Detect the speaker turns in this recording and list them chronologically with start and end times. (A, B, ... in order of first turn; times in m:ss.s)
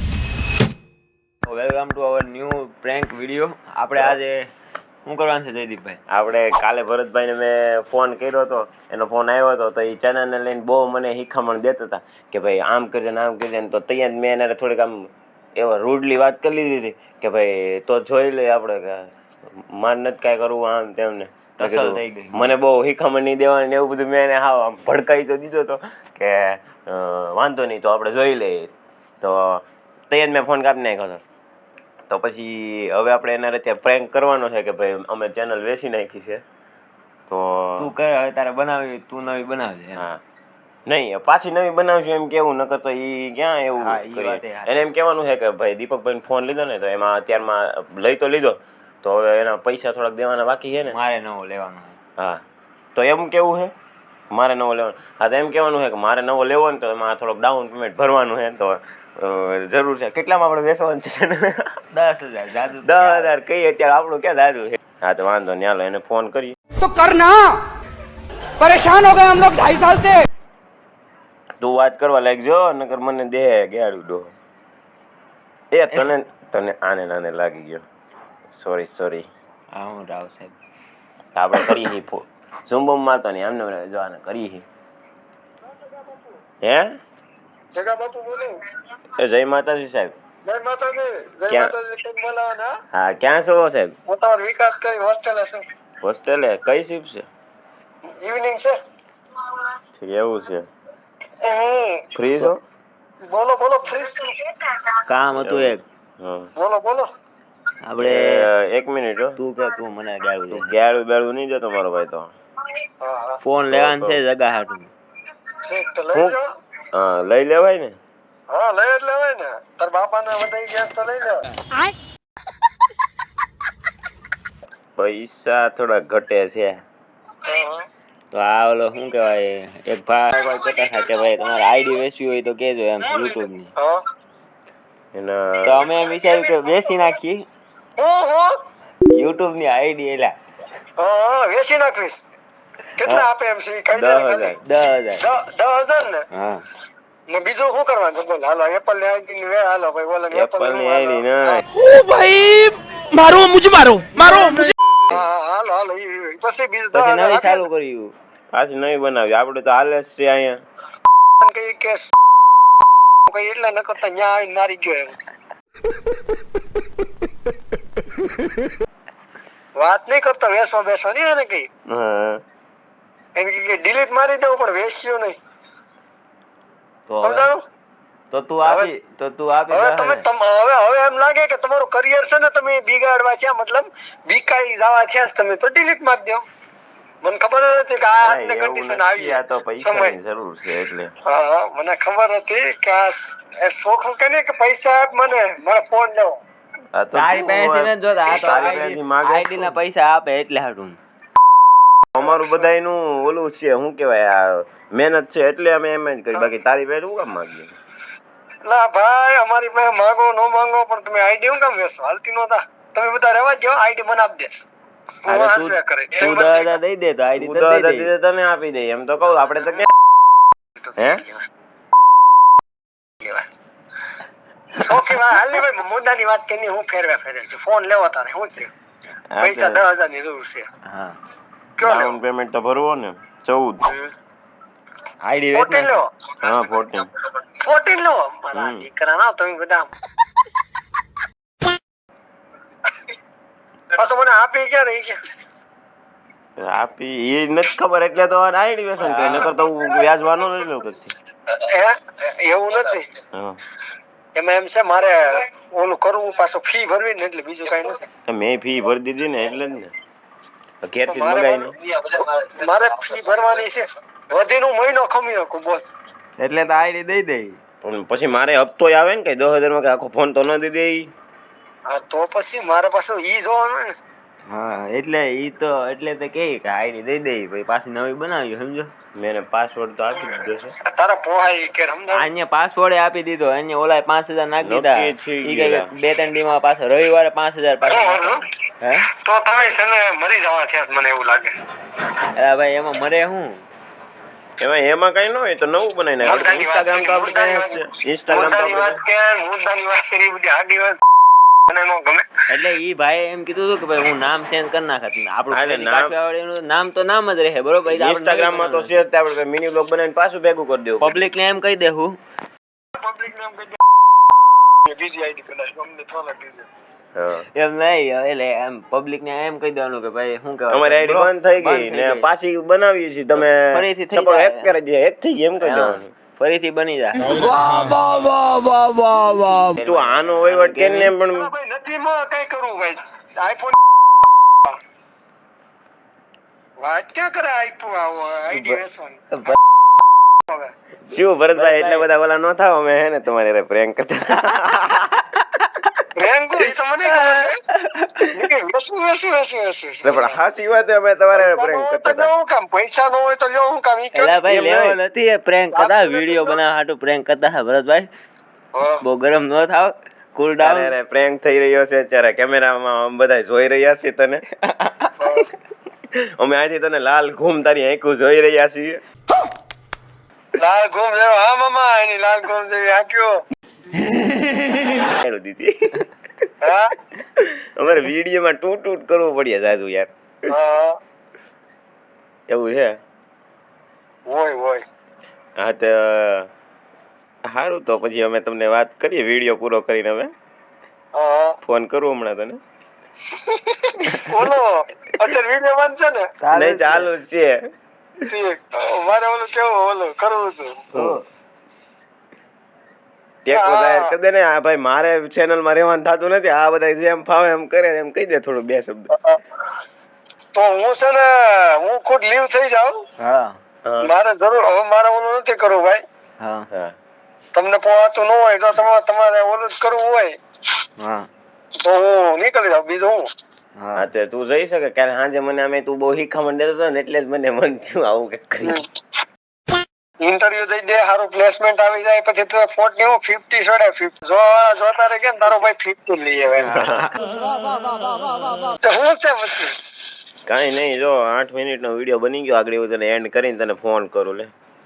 0:01.4-0:04.4 A
0:05.0-0:06.0 A
0:06.1-0:31.2 B
0:21.6-0:22.5 A
0:32.1-0:36.4 B
0:37.3-0:37.9 B
0:37.8-0:40.0 A
0:40.0-0:40.2 B
0:40.9-0:51.0 B
0:43.8-0:44.8 A
0:50.9-0:52.0 A
0:52.2-0:52.4 B
0:52.9-0:53.7 B
0:54.3-1:01.8 B
1:01.9-1:03.3 A
1:02.8-1:06.6 B
1:06.8-1:07.6 C
1:08.6-1:10.2 C
1:11.6-1:14.3 B
1:15.7-1:17.8 B
1:18.5-1:19.3 B
1:19.7-1:20.5 A
1:21.3-1:24.6 B
1:25.6-1:26.4 D
1:26.6-1:27.0 B
1:27.7-1:28.6 D
1:29.1-1:30.2 B
1:30.4-1:32.8 D
1:31.5-1:31.7 B
1:32.9-1:33.9 B
1:34.1-1:35.6 D
1:36.0-1:37.3 B
1:38.1-1:38.8 D
1:40.0-1:40.7 B
1:41.4-1:42.1 D
1:42.1-1:42.6 B
1:43.3-1:44.6 D
1:45.1-1:45.8 A
1:45.3-1:46.5 B
1:46.6-1:47.1 D
1:47.8-1:48.5 A
1:48.0-1:49.4 B
1:49.4-1:50.7 A
1:50.5-1:52.3 B
1:53.0-1:53.4 D
1:53.4-1:54.9 A
1:53.7-1:54.2 B
1:55.6-1:56.4 D
1:56.9-1:57.9 B
1:58.5-2:01.4 D
2:05.0-2:06.8 B
2:07.4-2:07.9 D
2:08.3-2:13.7 A
2:13.1-2:14.0 D
2:15.1-2:15.9 B
2:15.6-2:17.4 A
2:18.0-2:18.5 D
2:19.1-2:20.3 A
2:21.0-2:22.2 D
2:23.0-2:24.6 D
2:23.9-2:24.6 B
2:24.6-2:25.2 A
2:25.2-2:26.2 D
2:26.3-2:26.6 A
2:27.3-2:31.6 D
2:30.3-2:31.6 B
2:31.7-2:34.8 C
2:35.1-2:37.7 D
2:36.9-2:38.1 A
2:38.5-2:40.6 B
2:41.4-2:42.1 D
2:43.3-2:45.2 D
2:49.8-2:51.7 D
2:51.9-2:52.4 B
2:53.4-2:55.4 D
2:57.1-2:57.5 A
2:57.2-2:57.6 D
2:58.3-3:00.2 A
2:58.6-2:58.9 D
2:59.7-3:06.4 D
3:07.2-3:10.2 D
3:08.2-3:11.1 B
3:11.2-3:16.4 D
3:16.9-3:19.8 B
3:17.1-3:21.0 A
3:18.4-3:18.8 D
3:22.1-3:27.7 B
3:22.2-3:22.6 D
3:28.6-3:34.6 D
3:35.2-3:36.7 D
3:35.3-3:38.1 A
3:37.4-3:39.9 B
3:41.0-3:41.2 B
3:44.7-3:48.7 D
3:49.3-3:49.8 B
3:49.4-3:50.7 D
3:50.8-3:51.2 A
3:51.8-3:52.2 D
3:51.8-3:53.8 B
3:55.2-3:56.0 A
3:55.5-3:56.1 D
3:56.4-3:57.1 B
3:57.4-3:59.9 D
3:58.5-3:58.9 B
4:03.9-4:05.2 D
4:06.6-4:11.1 B
4:09.0-4:09.5 A
4:11.6-4:13.1 D
4:13.3-4:13.6 B
4:14.4-4:18.0 D
4:18.3-4:19.9 B
4:20.8-4:21.8 B
4:21.1-4:25.8 D
4:26.4-4:27.6 A
4:27.8-4:31.1 B
4:31.9-4:33.9 D
4:34.5-4:38.9 A
4:39.1-4:40.8 B
4:40.8-4:42.3 D
4:42.1-4:49.1 A
4:44.6-4:45.9 B
4:47.8-4:48.4 D
4:49.1-4:51.6 D
4:52.4-4:53.6 A
4:54.6-4:59.0 B
4:56.2-5:01.0 D
5:01.7-5:02.3 D
5:02.5-5:09.0 A
5:05.5-5:06.1 B
5:07.9-5:11.3 B
5:11.0-5:12.1 A
5:13.0-5:13.8 D
5:14.8-5:16.7 D
5:17.1-5:17.5 B
5:17.5-5:22.3 A
5:20.7-5:26.1 B
5:23.4-5:24.7 A
5:25.6-5:31.1 A
5:27.2-5:28.0 C
5:29.8-5:31.5 B
5:31.3-5:33.8 D
5:36.8-5:39.5 D
5:38.5-5:38.8 A
5:40.5-5:40.7 D
5:41.1-5:45.3 B
5:41.5-5:42.0 A
5:46.1-5:47.6 D
5:47.7-5:48.3 A
5:48.3-5:50.4 D
5:50.0-5:52.3 B
5:51.3-5:54.4 D
5:54.1-5:58.1 A
5:54.4-5:55.0 B
5:55.7-5:56.6 D
5:58.7-5:59.0 D
5:59.0-6:00.9 A
6:00.6-6:04.4 B
6:04.7-6:05.1 A
6:05.2-6:05.5 D
6:06.1-6:09.0 B
6:10.6-6:13.4 D
6:14.9-6:16.0 B
6:16.6-6:16.9 D
6:17.4-6:20.5 B
6:20.5-6:21.0 D
6:22.5-6:23.0 B
6:24.3-6:24.8 D
6:25.6-6:26.5 B
6:27.5-6:30.3 B
6:31.1-6:31.6 D
6:31.6-6:32.6 B
6:33.3-6:36.3 D
6:34.1-6:34.5 B
6:36.4-6:37.1 A
6:36.5-6:37.7 B
6:38.3-6:40.8 D
6:40.9-6:41.2 A
6:43.4-6:49.1 B
6:43.5-6:44.1 D
6:49.1-6:49.4 D
6:50.5-6:53.0 D
6:53.2-6:53.6 A
6:53.8-6:54.1 B
6:54.0-6:56.0 D
6:56.4-6:56.7 A
6:56.7-6:57.0 B
6:57.5-7:00.4 D
7:01.0-7:01.3 A
7:01.8-7:03.2 D
7:03.8-7:04.0 A
7:04.0-7:08.8 B
7:10.2-7:16.7 D
7:16.6-7:17.4 A
7:16.7-7:17.1 B
7:18.7-7:19.8 D
7:20.4-7:24.5 B